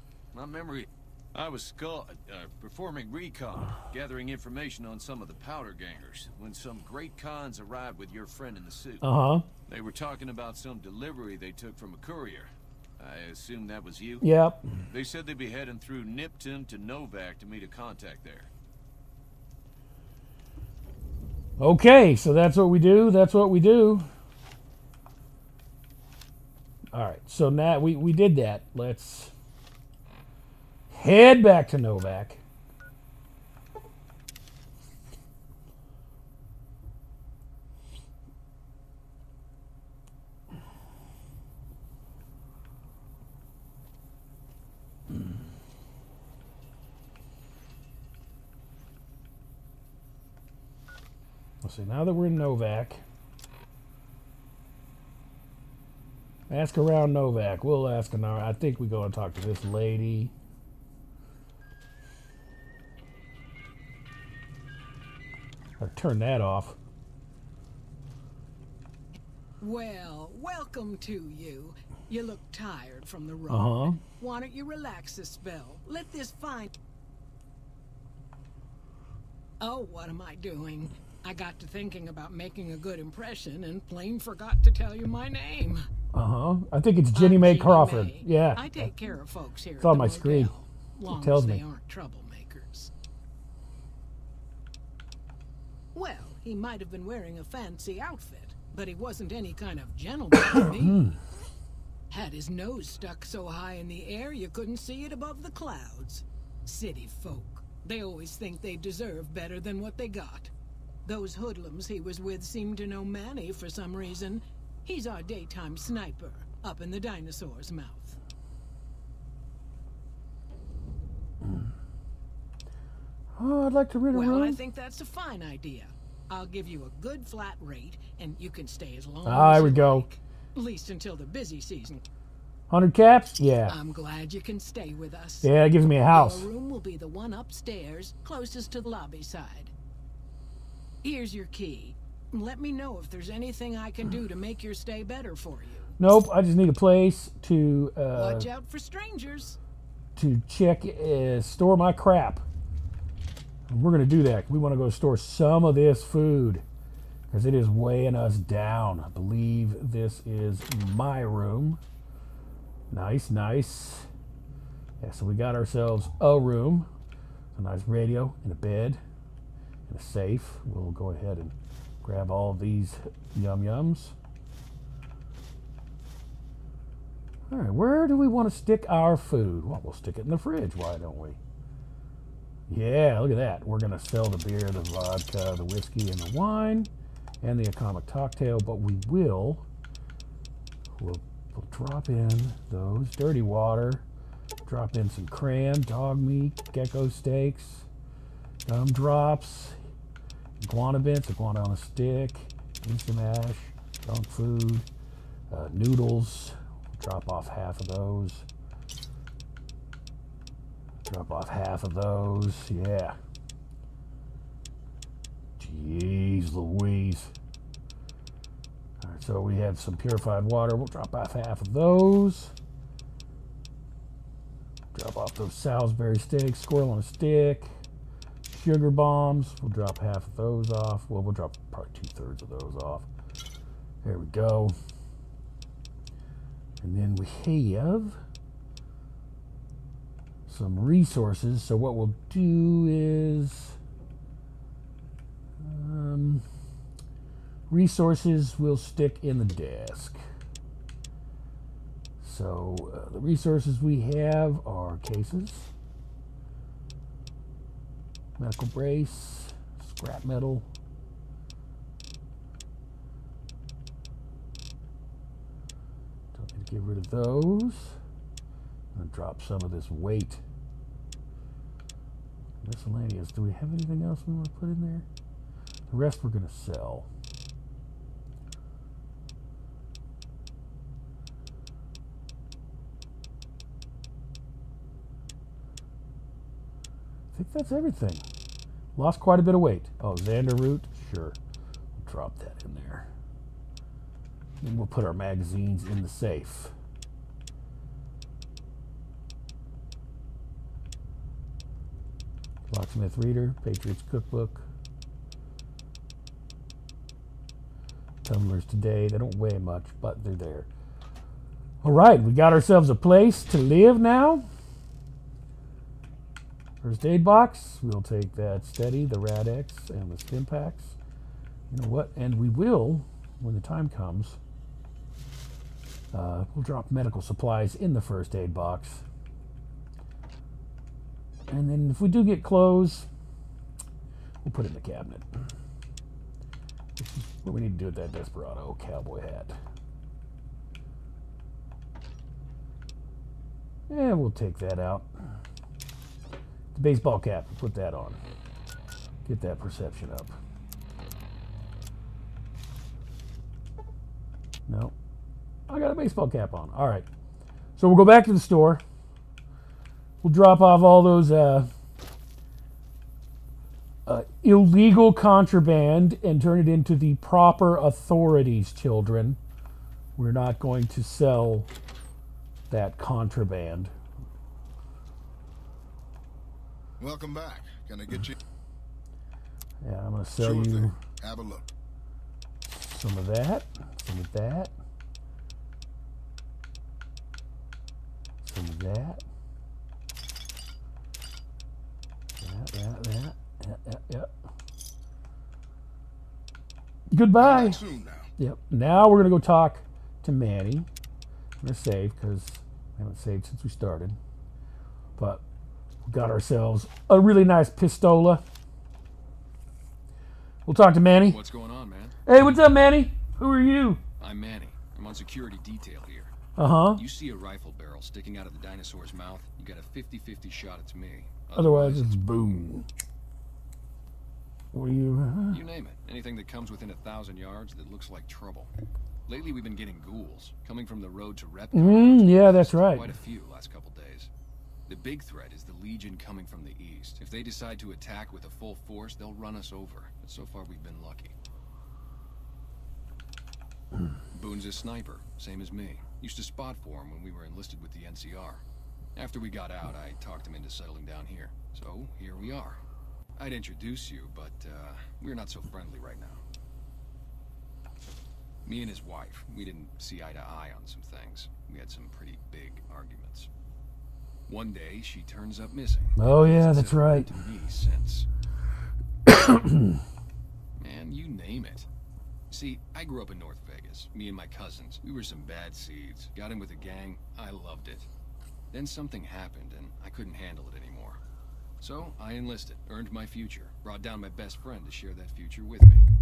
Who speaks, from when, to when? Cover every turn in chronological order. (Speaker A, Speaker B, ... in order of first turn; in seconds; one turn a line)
Speaker A: 0.3-9.0
Speaker B: 9.0-9.4
Speaker A: 9.7-14.2
Speaker B: 14.2-14.6
Speaker A: 14.9-18.5
Speaker B: 21.6-24.1
Speaker B: 26.9-29.3
Speaker B: 30.9-32.4
Speaker B: 51.6-53.0
Speaker B: 56.5-60.3
Speaker B: 65.8-66.8
Speaker C: 69.6-76.7
Speaker B: 73.5-74.0
Speaker C: 79.6-85.8
Speaker B: 86.1-88.9
Speaker C: 87.1-92.9
Speaker B: 89.8-90.5
Speaker B: 91.0-91.6
Speaker C: 95.9-101.0
Speaker B: 100.6-101.2
Speaker C: 102.1-110.5
Speaker C: 111.0-118.2
Speaker B: 123.3-124.6
Speaker C: 124.1-132.0
Speaker B: 129.2-130.1
Speaker B: 132.7-133.8
Speaker C: 133.7-135.5
Speaker B: 135.4-136.5
Speaker C: 136.1-139.7
Speaker C: 141.0-145.9
Speaker B: 146.0-148.5
Speaker C: 148.1-149.6
Speaker B: 150.2-152.4
Speaker B: 153.7-156.6
Speaker B: 157.3-161.8
Speaker B: 162.9-164.1
Speaker B: 165.0-166.9
Speaker B: 167.5-169.0
Speaker B: 169.9-174.2
Speaker B: 177.5-181.4
Speaker B: 182.7-189.7
Speaker B: 190.9-194.1
Speaker B: 194.7-197.9
Speaker B: 198.7-199.8
Speaker B: 200.6-204.9
Speaker B: 205.5-208.4
Speaker B: 211.0-213.2
Speaker B: 215.6-217.3
Speaker B: 219.0-222.5
Speaker B: 224.9-227.7
Speaker B: 228.5-233.1
Speaker B: 234.0-234.7
Speaker B: 236.8-238.2
Speaker B: 240.5-243.8
Speaker B: 245.6-246.4
Speaker B: 247.7-250.2
Speaker B: 252.2-255.7
Speaker B: 258.4-260.7
Speaker B: 266.3-268.0
Speaker B: 268.9-270.4
Speaker B: 272.6-275.1
Speaker B: 275.9-277.1
Speaker B: 287.3-288.2
Speaker B: 288.9-291.4
Speaker B: 291.9-293.1
Speaker B: 294.6-296.7
Speaker B: 302.7-304.7
Speaker B: 308.2-310.7
Speaker B: 311.8-314.5
Speaker B: 316.8-321.0
Speaker B: 321.7-324.4
Speaker B: 326.1-329.0
Speaker B: 331.5-333.1
Speaker B: 334.4-335.3
Speaker B: 336.9-339.6
Speaker B: 343.9-345.1
Speaker B: 346.7-348.2
Speaker B: 349.2-350.4
Speaker B: 354.7-354.9
Speaker B: 355.7-357.1
Speaker B: 357.8-358.8
Speaker B: 360.2-361.7
Speaker B: 364.1-369.4
Speaker B: 370.2-371.7
Speaker B: 372.7-373.9
Speaker D: 377.0-378.4
Speaker B: 379.8-381.0
Speaker D: 380.4-381.7
Speaker B: 382.6-384.7
Speaker B: 388.4-389.2
Speaker B: 392.4-394.3
Speaker B: 397.1-397.8
Speaker D: 397.4-398.3
Speaker B: 398.4-400.9
Speaker B: 401.6-404.2
Speaker B: 405.2-405.4
Speaker B: 406.0-408.4
Speaker B: 410.6-411.4
Speaker E: 411.2-412.1
Speaker B: 412.2-414.0
Speaker E: 414.2-416.3
Speaker B: 416.6-417.0
Speaker E: 416.9-422.4
Speaker B: 421.5-422.9
Speaker B: 424.7-425.6
Speaker E: 425.5-428.7
Speaker E: 429.3-434.3
Speaker B: 431.7-433.1
Speaker E: 434.9-441.3
Speaker E: 444.3-448.6
Speaker E: 449.1-452.8
Speaker E: 453.4-456.4
Speaker E: 458.6-463.5
Speaker E: 464.5-468.3
Speaker B: 466.2-467.3
Speaker B: 469.3-470.0
Speaker E: 470.8-471.9
Speaker E: 472.5-478.1
Speaker E: 478.7-481.2
Speaker E: 481.8-486.0